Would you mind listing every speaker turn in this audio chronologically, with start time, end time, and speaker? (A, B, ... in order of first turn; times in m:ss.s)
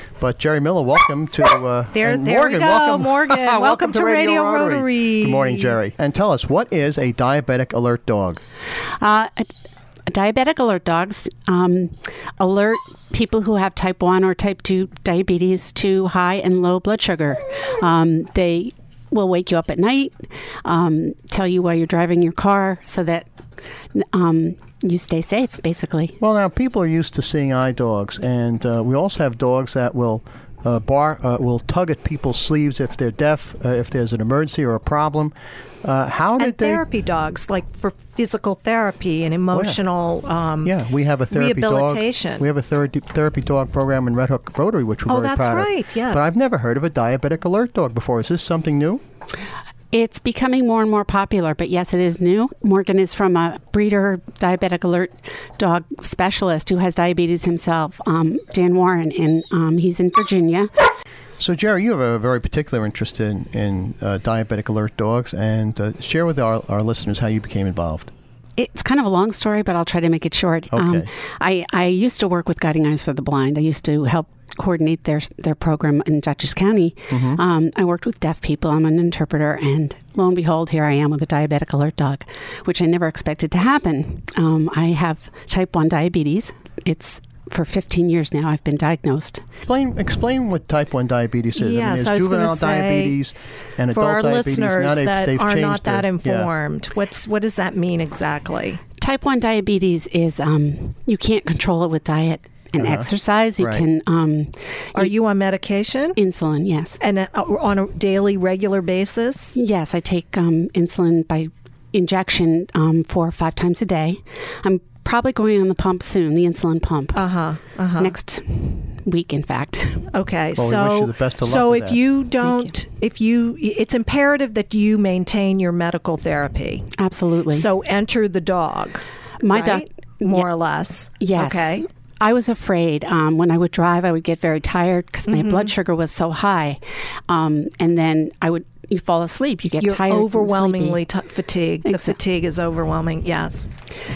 0:00.2-0:08.4 A
0:01.9-0:05.8 B
0:09.0-0:09.5 C
0:10.1-0:20.1 C
0:20.6-0:23.3 C
0:23.9-0:26.2 C
0:26.2-0:36.8 A
0:36.4-0:40.8 B
0:39.5-0:39.8 A
0:40.6-0:49.0 A
0:41.3-0:42.4 B
0:45.1-0:46.3 B
0:49.9-1:00.7 C
1:01.4-1:08.1 A
1:08.6-1:29.4 C
1:10.7-1:11.1 A
1:17.1-1:17.4 A
1:29.6-1:36.5 A
1:31.6-1:33.2 B
1:33.9-1:38.8 B
1:39.0-1:45.1 C
1:42.8-1:43.1 A
1:43.6-1:43.8 A
1:45.0-1:46.2 B
1:46.2-1:47.0 C
1:47.0-1:49.6 B
1:49.6-1:57.2 C
1:57.1-1:58.1 B
1:58.0-2:00.1 C
2:00.1-2:06.9 B
2:00.6-2:02.0 A
2:02.4-2:02.7 C
2:07.0-2:07.7 C
2:07.5-2:11.8 B
2:09.4-2:10.5 C
2:11.2-2:21.0 C
2:15.3-2:15.7 B
2:19.8-2:23.7 B
2:21.9-2:22.2 C